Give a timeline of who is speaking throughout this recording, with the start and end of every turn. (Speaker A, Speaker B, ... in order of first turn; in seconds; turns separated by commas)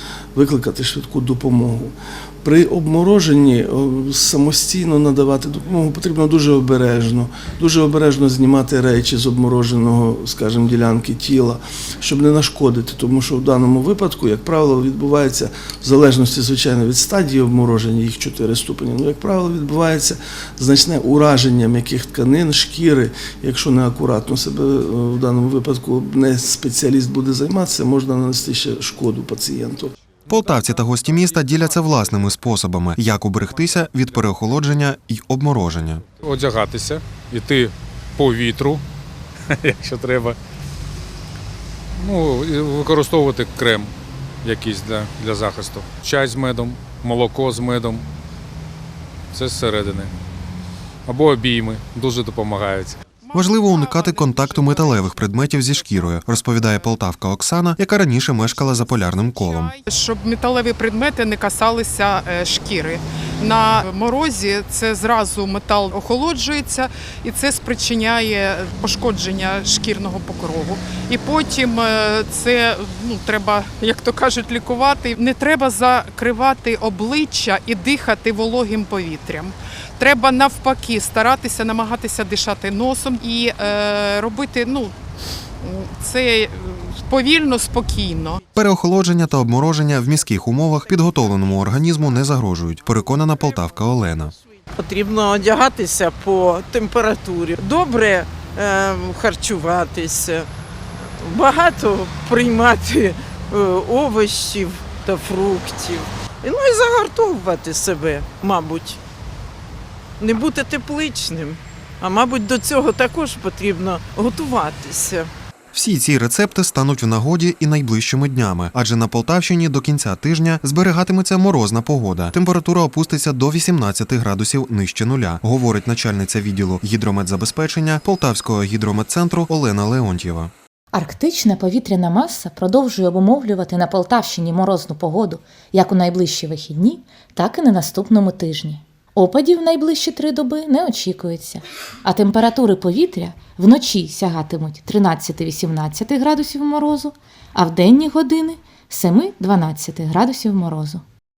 Speaker A: 0.3-29.9, Speaker B: 30.3-36.0, Speaker C: 30.7-31.3, Speaker C: 36.2-38.8, Speaker C: 39.5-40.4, Speaker C: 42.0-48.0, Speaker C: 49.3-50.1, Speaker C: 51.0-53.0, Speaker D: 53.2-56.8, Speaker B: 53.3-59.8, Speaker D: 58.7-84.9, Speaker D: 85.6-88.4, Speaker B: 88.5-94.3, Speaker E: 94.8-100.5, Speaker E: 101.2-109.0, Speaker E: 110.2-115.3, Speaker B: 115.7-130.5, Speaker F: 130.9-151.0